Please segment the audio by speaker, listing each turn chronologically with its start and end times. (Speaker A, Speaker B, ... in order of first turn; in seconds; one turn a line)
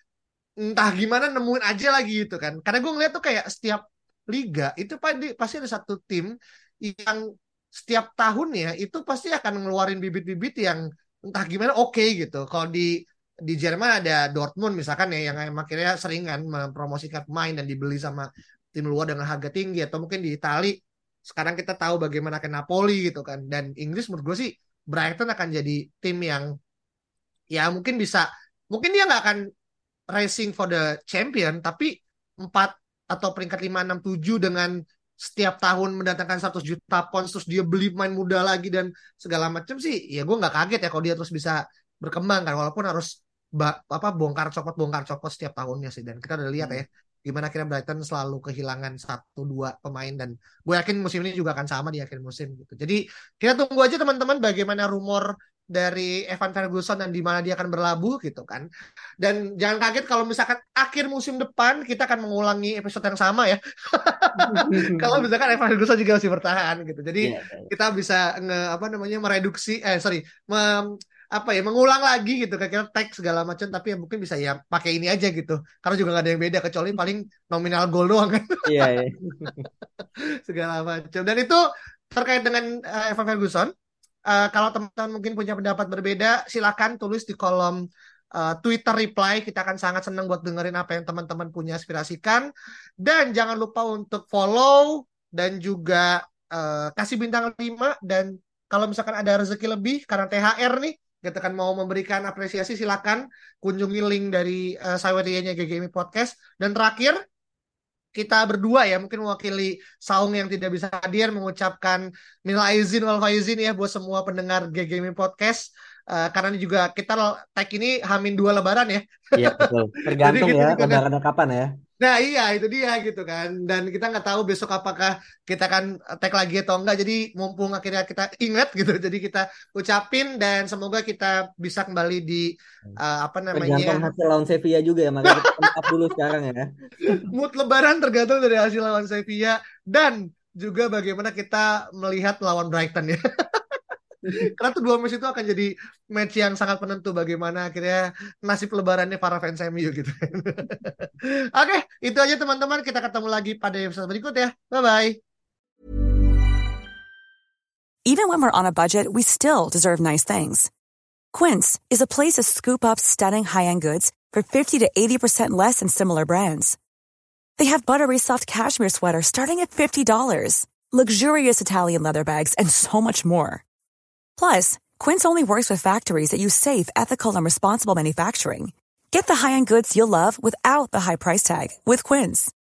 Speaker A: 0.6-6.3
Speaker A: 6.9-7.2
Speaker A: 7.7-12.9
Speaker A: 13.5-20.7
Speaker A: 21.3-26.5
Speaker A: 27.5-29.4
Speaker A: 30.1-58.6
Speaker A: 59.2-78.9
Speaker B: 64.4-65.2
Speaker B: 67.2-67.7
Speaker B: 78.7-79.7
Speaker A: 80.5-81.6
Speaker A: 82.1-83.7
Speaker A: 84.3-87.8
Speaker A: 88.3-92.5
Speaker A: 93.0-107.2
Speaker A: 108.2-121.0
Speaker B: 119.4-121.7
Speaker A: 122.0-134.1
Speaker B: 133.5-137.2
Speaker A: 135.2-135.9
Speaker A: 137.0-143.6
Speaker A: 144.3-155.2
Speaker C: 158.1-160.7
Speaker C: 161.3-166.8
Speaker C: 167.6-173.6
Speaker C: 174.4-182.5